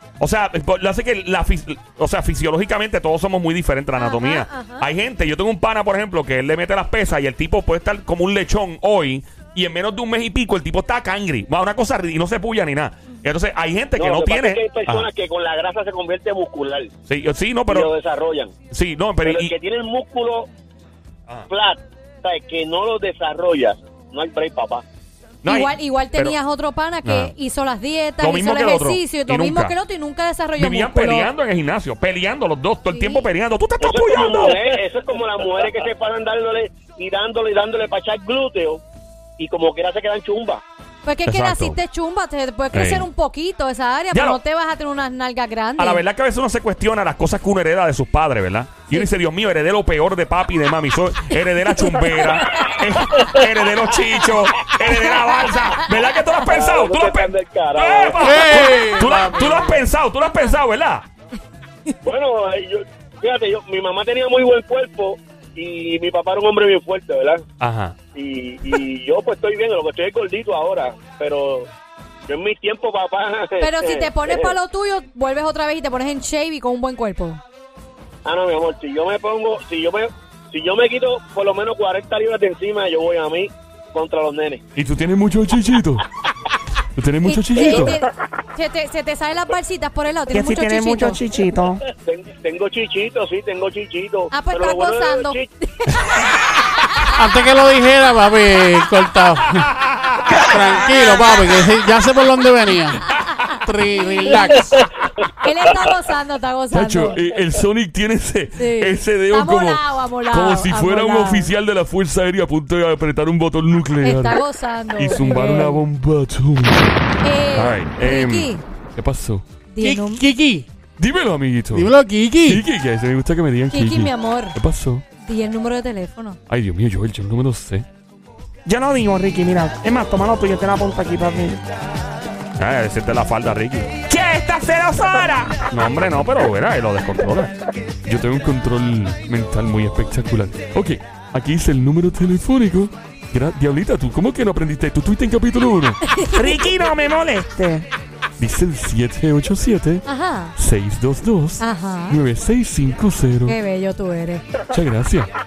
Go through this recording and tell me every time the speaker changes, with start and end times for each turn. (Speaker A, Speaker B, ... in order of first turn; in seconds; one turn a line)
Speaker A: 0.2-15.1
Speaker B: 4.0-4.9
Speaker C: 13.9-16.9
Speaker A: 17.1-17.9
Speaker C: 17.7-18.5
Speaker A: 18.7-19.5
Speaker C: 19.2-20.5
Speaker C: 21.5-24.8
Speaker A: 25.4-26.4
Speaker B: 25.4-31.3
Speaker A: 27.0-27.3
Speaker A: 28.2-29.8
Speaker A: 30.6-34.7
Speaker B: 32.9-33.2
Speaker C: 33.8-38.8
Speaker C: 39.4-40.6
Speaker B: 41.0-46.0
Speaker A: 41.3-41.8
Speaker A: 42.7-43.0
Speaker A: 44.1-44.4
Speaker A: 45.8-61.1
Speaker C: 56.5-58.6
Speaker D: 58.2-59.8
Speaker C: 62.0-67.4
Speaker A: 67.6-68.0
Speaker C: 68.1-71.7
Speaker C: 72.3-74.5
Speaker B: 73.6-77.4
Speaker C: 78.2-84.6
Speaker E: 84.8-86.0
Speaker E: 86.9-88.0
Speaker B: 87.2-91.2
Speaker F: 90.3-91.8
Speaker C: 91.9-95.5
Speaker B: 94.3-97.2
Speaker D: 97.1-99.7
Speaker A: 99.9-100.3
Speaker D: 100.3-103.0
Speaker B: 100.9-101.7
Speaker B: 103.0-104.6
Speaker D: 103.7-104.8
Speaker B: 105.4-107.2
Speaker E: 106.7-114.4
Speaker B: 108.5-111.5
Speaker B: 114.0-115.8
Speaker E: 114.9-116.9
Speaker B: 117.2-118.6
Speaker A: 117.6-118.4
Speaker E: 117.8-118.2
Speaker E: 118.9-119.5
Speaker B: 119.7-120.2
Speaker D: 119.8-120.7
Speaker E: 121.0-125.0
Speaker D: 121.7-122.6
Speaker B: 123.7-124.6
Speaker B: 125.1-126.4
Speaker E: 126.5-127.8
Speaker F: 128.7-131.6
Speaker A: 132.6-133.9
Speaker F: 134.1-135.6
Speaker A: 135.7-137.5
Speaker E: 138.1-146.0
Speaker B: 146.1-146.6
Speaker F: 146.3-147.9
Speaker E: 148.4-150.0
Speaker B: 150.1-150.5
Speaker E: 150.6-153.6
Speaker B: 151.6-152.2
Speaker B: 153.4-154.7
Speaker E: 154.7-155.3